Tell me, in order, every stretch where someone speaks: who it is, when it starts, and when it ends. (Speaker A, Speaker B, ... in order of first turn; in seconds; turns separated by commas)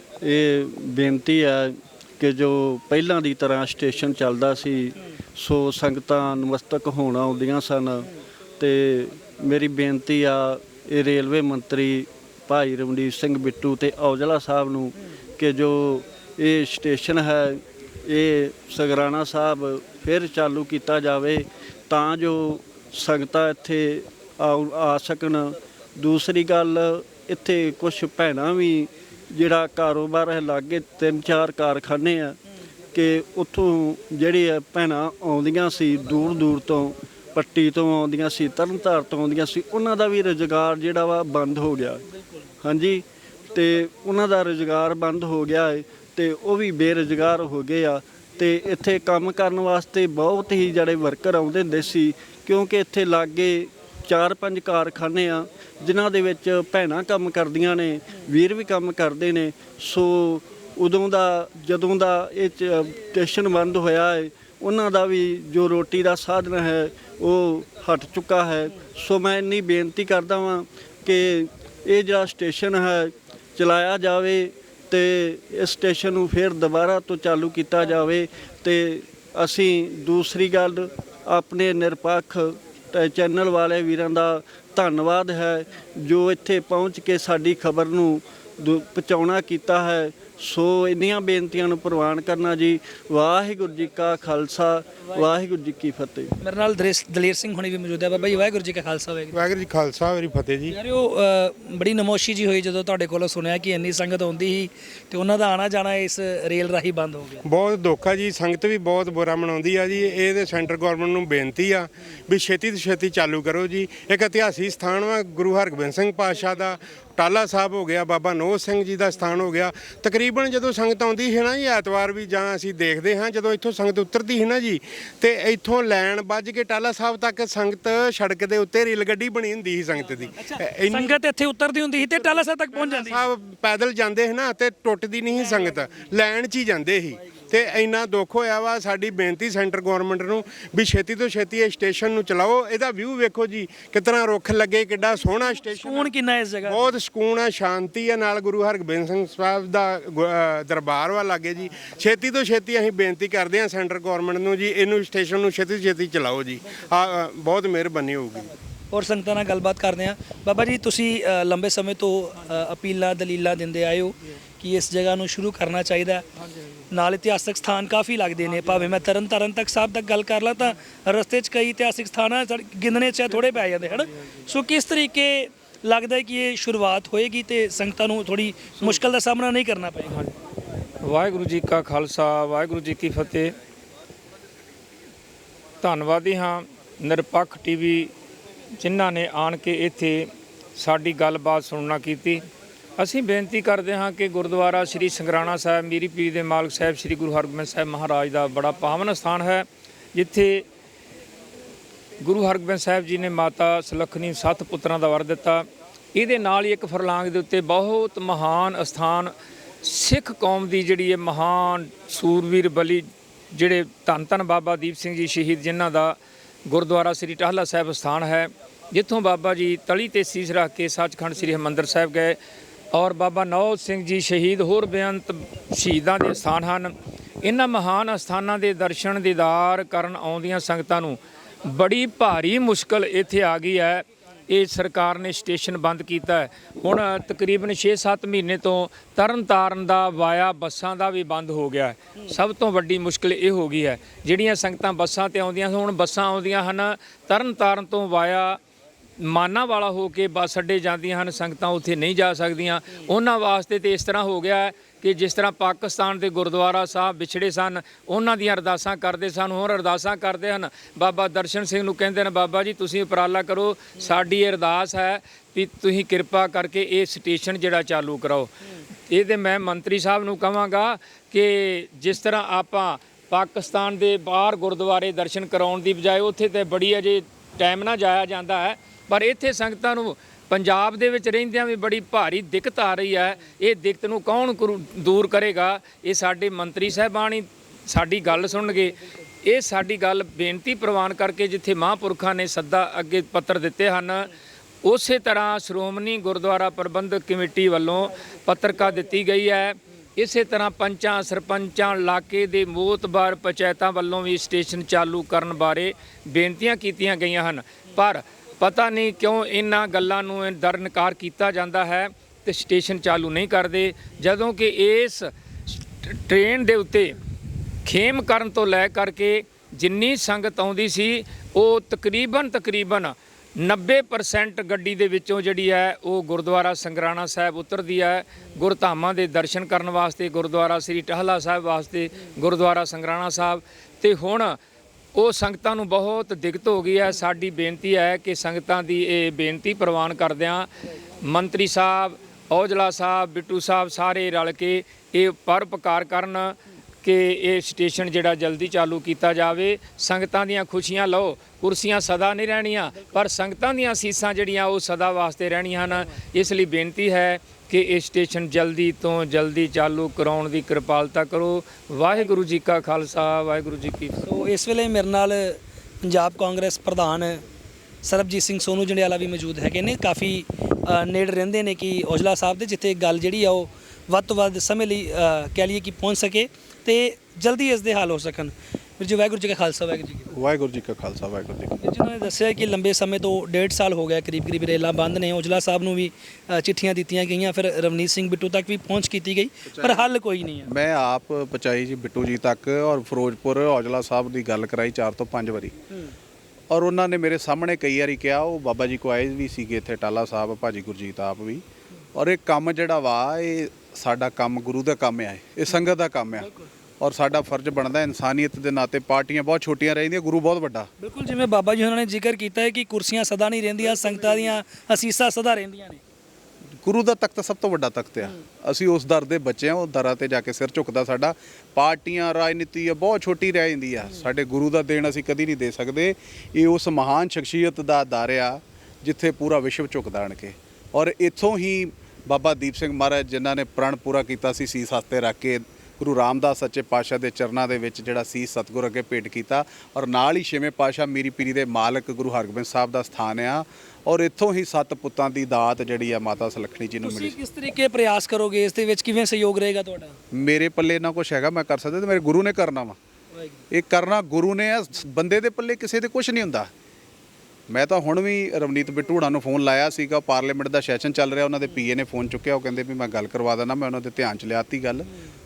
Speaker A: 0.2-32.4, Speaker A: 32.9-42.0, Speaker A: 42.6-96.3, Speaker B: 96.4-99.5, Speaker C: 99.3-100.7, Speaker B: 100.7-107.4, Speaker C: 107.4-131.2, Speaker B: 130.3-133.3, Speaker C: 132.0-146.1, Speaker B: 145.7-146.9, Speaker C: 146.6-158.5, Speaker B: 158.9-166.2, Speaker B: 166.9-180.2, Speaker D: 181.0-183.6, Speaker D: 185.8-188.1, Speaker D: 188.8-192.5, Speaker D: 193.0-200.7, Speaker D: 202.2-209.3, Speaker D: 209.8-222.4, Speaker D: 222.9-226.9, Speaker D: 227.4-248.6, Speaker D: 249.2-268.5, Speaker D: 269.1-294.3, Speaker D: 294.9-317.2, Speaker D: 317.9-334.6, Speaker D: 335.1-340.7, Speaker D: 341.2-364.2, Speaker B: 364.2-367.4, Speaker B: 368.0-380.3, Speaker E: 380.3-381.8, Speaker B: 381.8-390.7, Speaker E: 389.7-390.1, Speaker E: 390.7-395.8, Speaker E: 396.7-401.6, Speaker E: 402.1-406.5, Speaker B: 406.4-406.7, Speaker E: 407.0-410.9, Speaker B: 411.0-416.0, Speaker E: 416.8-447.4, Speaker B: 447.0-450.1, Speaker E: 450.3-453.0, Speaker E: 453.7-456.7, Speaker E: 457.7-465.1